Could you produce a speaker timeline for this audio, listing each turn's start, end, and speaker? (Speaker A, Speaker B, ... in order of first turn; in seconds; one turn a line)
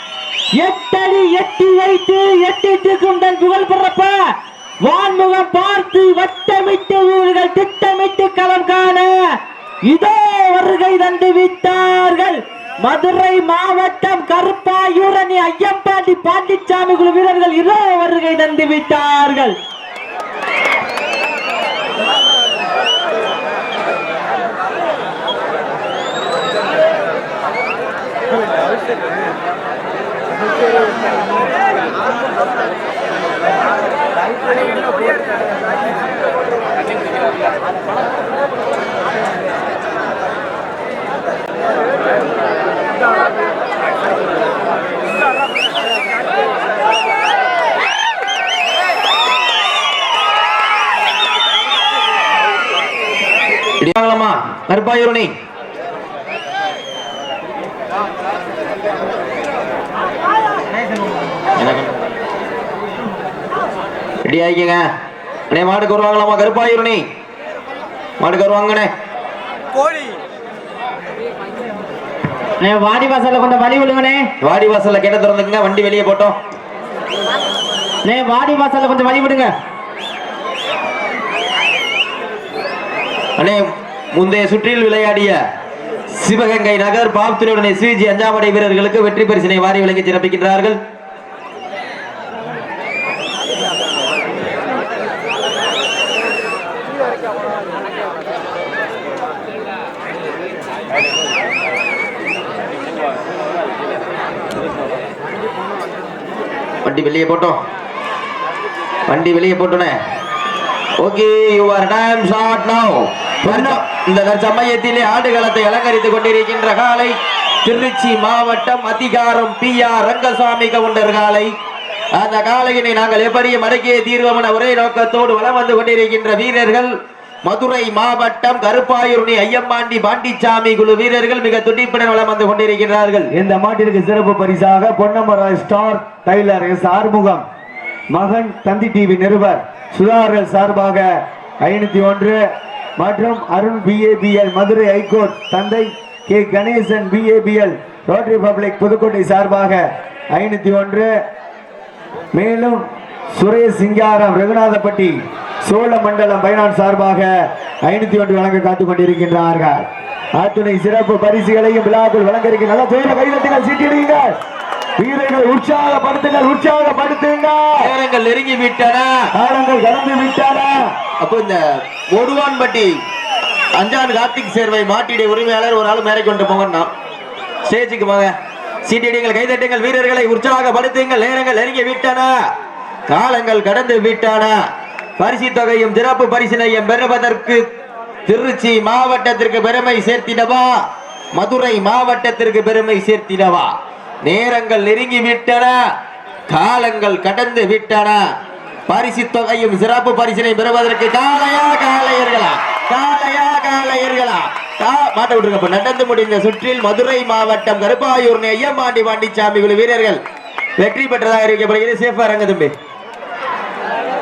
Speaker A: 0.6-4.2
Speaker A: 4.8-9.1
Speaker A: 9.8-19.6
Speaker B: 53.8-55.3
Speaker B: 61.6-61.9
Speaker B: 64.2-64.8
Speaker B: 65.5-67.0
Speaker B: 68.2-68.9
Speaker A: 72.6-74.3
Speaker B: 74.4-76.4
Speaker A: 78.0-79.5
Speaker B: 83.4-85.4
Speaker B: 86.1-90.8
Speaker B: 106.8-107.6
Speaker B: 109.1-110.0
Speaker B: 111.0-121.5
Speaker B: 122.2-126.9
Speaker B: 127.5-133.3
Speaker C: 133.3-137.4
Speaker C: 138.1-141.1
Speaker C: 141.6-142.4
Speaker C: 143.0-151.1
Speaker C: 152.3-152.8
Speaker C: 153.3-157.3
Speaker C: 157.9-164.3
Speaker C: 165.0-167.9
Speaker B: 167.8-169.1
Speaker C: 169.3-170.9
Speaker B: 171.2-171.6
Speaker B: 172.1-172.9
Speaker B: 173.8-176.9
Speaker B: 177.7-178.3
Speaker B: 178.8-182.3
Speaker B: 183.1-184.5
Speaker B: 185.2-187.6
Speaker B: 188.3-190.8
Speaker B: 191.4-193.7
Speaker B: 194.2-195.8
Speaker B: 196.5-198.2
Speaker B: 198.9-210.2
Speaker B: 210.8-212.7